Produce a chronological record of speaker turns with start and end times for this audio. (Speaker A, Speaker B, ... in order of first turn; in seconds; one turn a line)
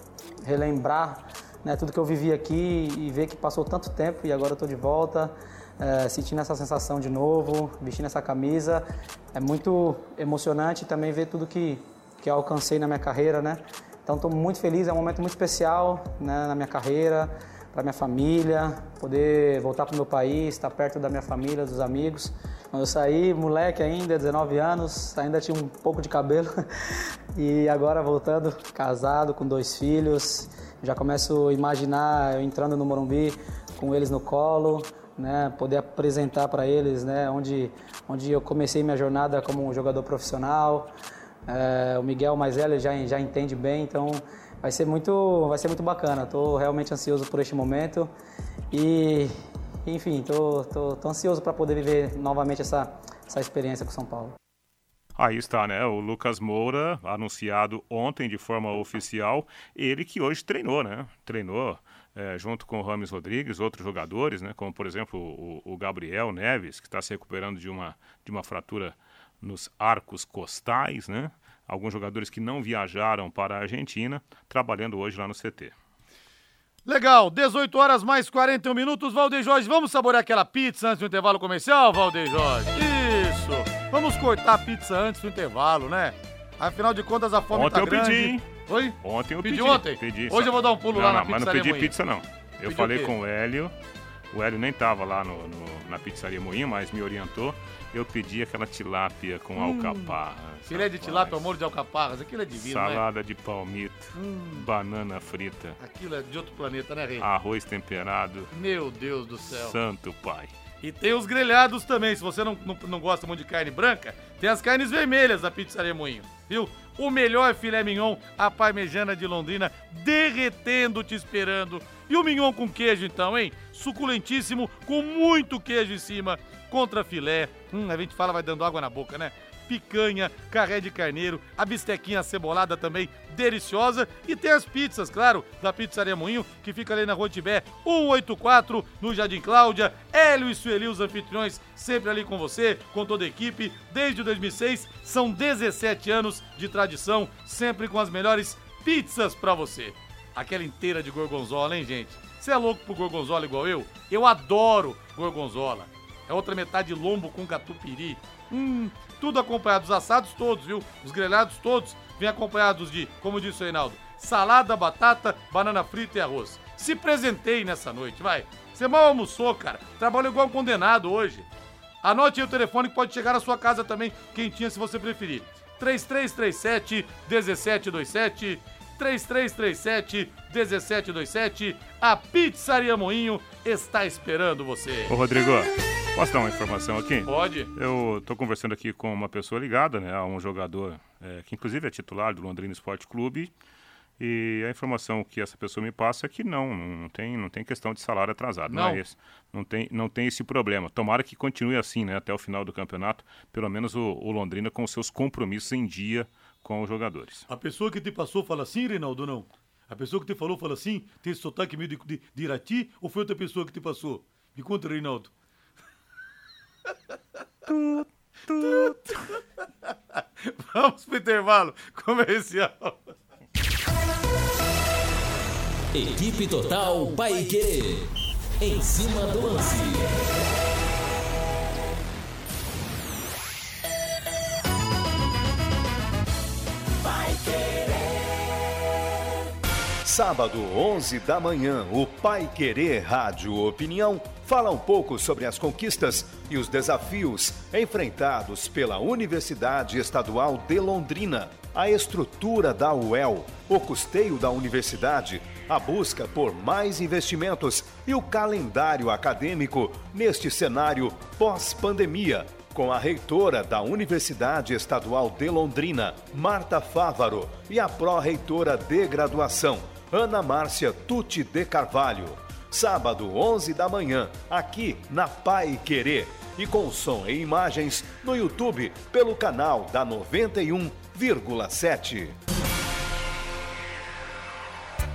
Speaker A: 0.5-26.5
Speaker A: 27.4-40.9
Speaker A: 41.5-48.1
Speaker A: 48.7-49.3
Speaker A: 49.9-54.3
Speaker B: 55.2-75.7
Speaker C: 76.8-91.9
Speaker B: 87.5-88.5
Speaker B: 89.0-93.7
Speaker C: 92.6-93.1
Speaker B: 94.3-101.4
Speaker C: 99.6-103.0
Speaker B: 102.5-105.8
Speaker C: 104.1-104.7
Speaker C: 105.8-107.2
Speaker B: 107.2-108.5
Speaker C: 108.5-109.8
Speaker B: 109.5-110.5
Speaker C: 110.8-171.5
Speaker C: 172.0-185.1
Speaker B: 185.1-193.5
Speaker C: 187.2-187.7
Speaker B: 194.2-207.4
Speaker C: 198.7-199.0
Speaker C: 207.5-215.3
Speaker B: 218.5-219.0
Speaker C: 218.6-219.1
Speaker C: 220.4-223.0
Speaker D: 225.9-230.3
Speaker E: 240.0-282.3